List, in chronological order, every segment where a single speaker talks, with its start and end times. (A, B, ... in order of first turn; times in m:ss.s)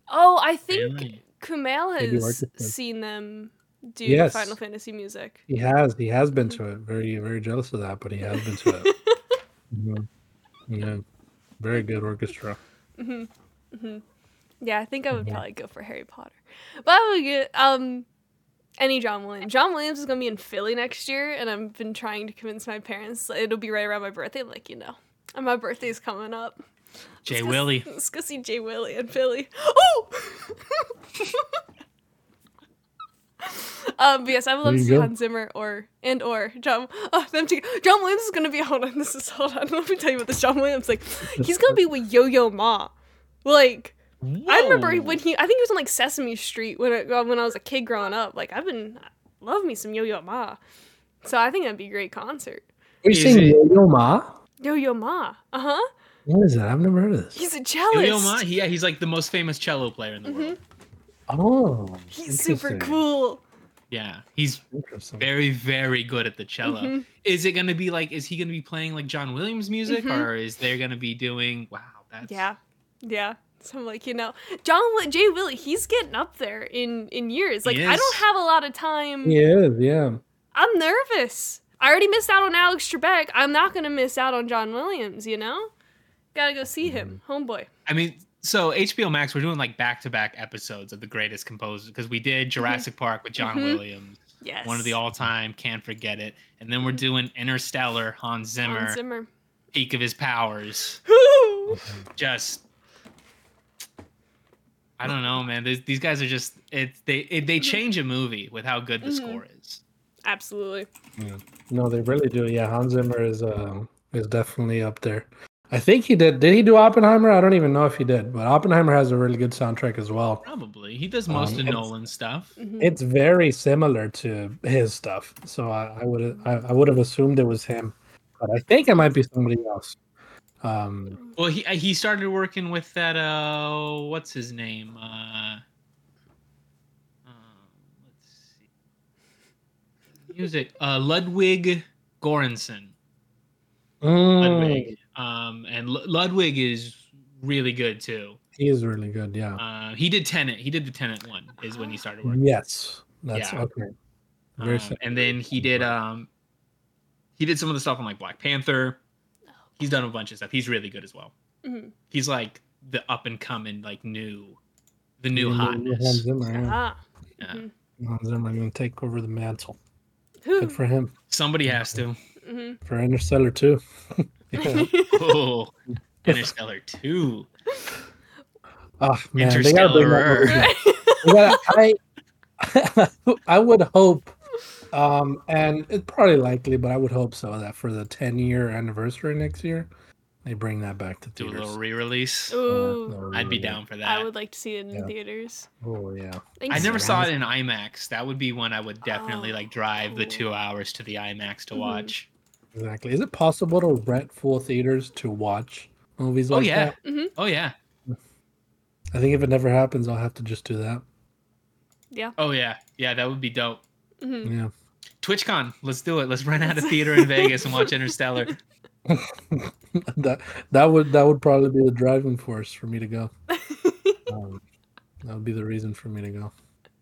0:00.1-0:05.4 A
0:00.7-0:01.2 B
0:02.0-0:02.7 C
0:04.0-0:04.6 C
0:05.5-0:08.9 C
0:08.3-0:09.3 A
0:09.7-0:10.1 C
0:10.7-0:11.0 C
0:11.6-0:12.6 C
0:13.0-0:14.0 A
0:14.6-0:18.0 A
0:15.1-0:15.4 C
0:18.8-0:26.6 A
0:27.2-0:27.9 B
0:27.2-0:31.6 A
0:33.4-0:42.9 A
0:34.6-0:35.1 C
0:41.4-0:41.8 C
0:43.4-0:44.0 A
0:44.2-0:45.2 B
0:44.5-0:50.6 A
0:51.2-0:52.7 A
0:53.0-0:54.4 C
0:53.1-0:53.6 B
0:54.6-0:55.9 A
0:56.3-0:57.4 C
0:57.3-0:58.4 A
0:57.9-1:00.6 B
1:00.2-1:00.6 A
1:01.3-1:03.0 C
1:02.1-1:03.4 A
1:03.9-1:04.6 B
1:04.7-1:05.3 C
1:05.2-1:12.5 B
1:06.6-1:07.0 A
1:09.9-1:10.3 A
1:12.2-1:19.4 A
1:17.7-1:18.2 B
1:19.2-1:20.2 C
1:20.6-1:25.7 A
1:26.3-1:27.7 A
1:26.8-1:27.2 C
1:27.9-1:39.0 B
1:32.6-1:32.9 A
1:33.4-1:33.8 A
1:34.4-1:35.0 A
1:38.6-1:39.3 A
1:39.7-1:41.0 B
1:41.1-1:41.8 A
1:41.7-1:42.0 C
1:42.2-1:42.6 B
1:45.0-1:49.8 B
1:49.0-1:49.4 A
1:50.2-1:50.9 A
1:51.2-2:00.4 C
2:00.4-2:02.6 B
2:01.3-2:01.9 C
2:02.6-2:02.9 A
2:02.8-2:10.0 C
2:10.6-2:11.2 C
2:11.4-2:15.6 B
2:17.3-2:18.5 B
2:20.3-2:22.9 B
2:24.0-2:25.0 C
2:24.4-2:28.4 B
2:28.6-2:29.6 C
2:29.6-2:32.4 B
2:31.7-2:32.0 A
2:32.2-2:33.9 C
2:33.3-2:33.6 B
2:34.6-2:35.9 C
2:34.6-2:36.3 B
2:37.4-2:39.0 B
2:39.8-2:41.3 B
2:41.6-2:41.9 A
2:42.1-2:44.6 B
2:45.2-2:46.2 B
2:45.3-2:46.8 C
2:46.5-2:47.7 A
2:48.0-2:49.8 C
2:50.4-2:50.8 A
2:50.6-2:52.0 C
2:51.3-2:52.2 B
2:52.4-2:52.8 A
2:52.8-2:54.9 C
2:54.6-2:55.2 A
2:55.1-2:55.7 B
2:56.2-2:57.5 B
2:56.3-2:56.5 C
2:59.0-3:02.0 C
2:59.4-3:00.7 B
3:00.4-3:01.7 A
3:02.6-3:04.4 C
3:04.9-3:09.9 C
3:10.4-3:11.7 C
3:11.4-3:12.6 B
3:12.5-3:13.3 A
3:12.7-3:13.8 C
3:13.3-3:14.3 B
3:14.0-3:15.7 A
3:15.8-3:17.3 C
3:16.6-3:17.3 A
3:16.7-3:22.3 B
3:19.0-3:20.4 A
3:21.7-3:22.1 A
3:22.7-3:27.0 C
3:26.5-3:27.7 B
3:27.0-3:27.3 A
3:29.1-3:31.0 C
3:32.4-3:33.8 B
3:34.2-3:34.5 A
3:34.4-3:34.7 C
3:35.2-3:38.6 B
3:36.6-3:37.9 A
3:39.0-3:43.3 C
3:43.5-3:44.3 A
3:44.3-3:44.6 C
3:45.2-3:46.5 C